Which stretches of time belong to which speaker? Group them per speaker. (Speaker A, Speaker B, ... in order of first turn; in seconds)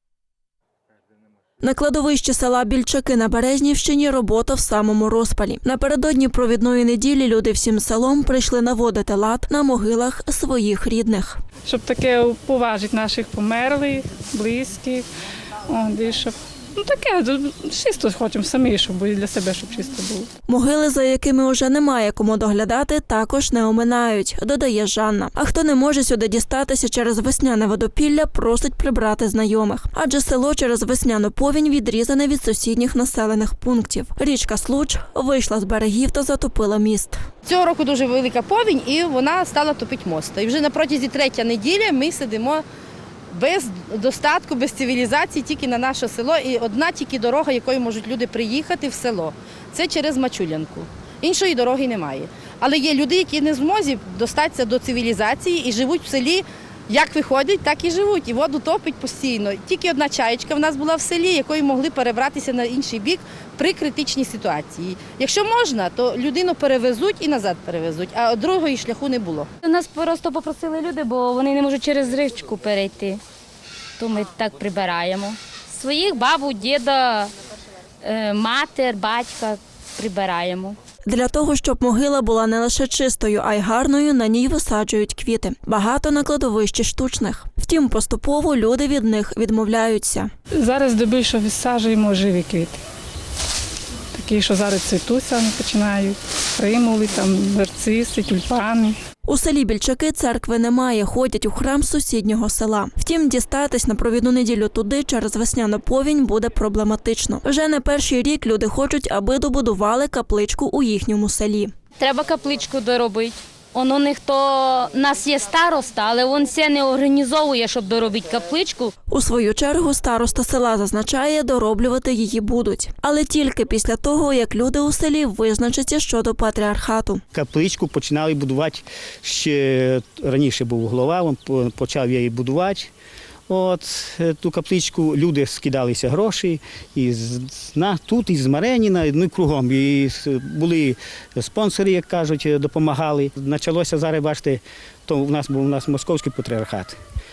Speaker A: 1.6-11.4, 20.5-37.2, 81.0-90.3, 99.2-111.7, 119.1-127.2
Speaker B: 11.6-15.1, 15.7-20.3, 90.5-92.8, 94.1-99.0
Speaker C: 37.4-42.6, 43.3-69.5
Speaker D: 69.6-73.2, 74.0-77.3, 78.0-80.8, 112.0-118.9
Speaker E: 127.3-132.9, 133.5-147.0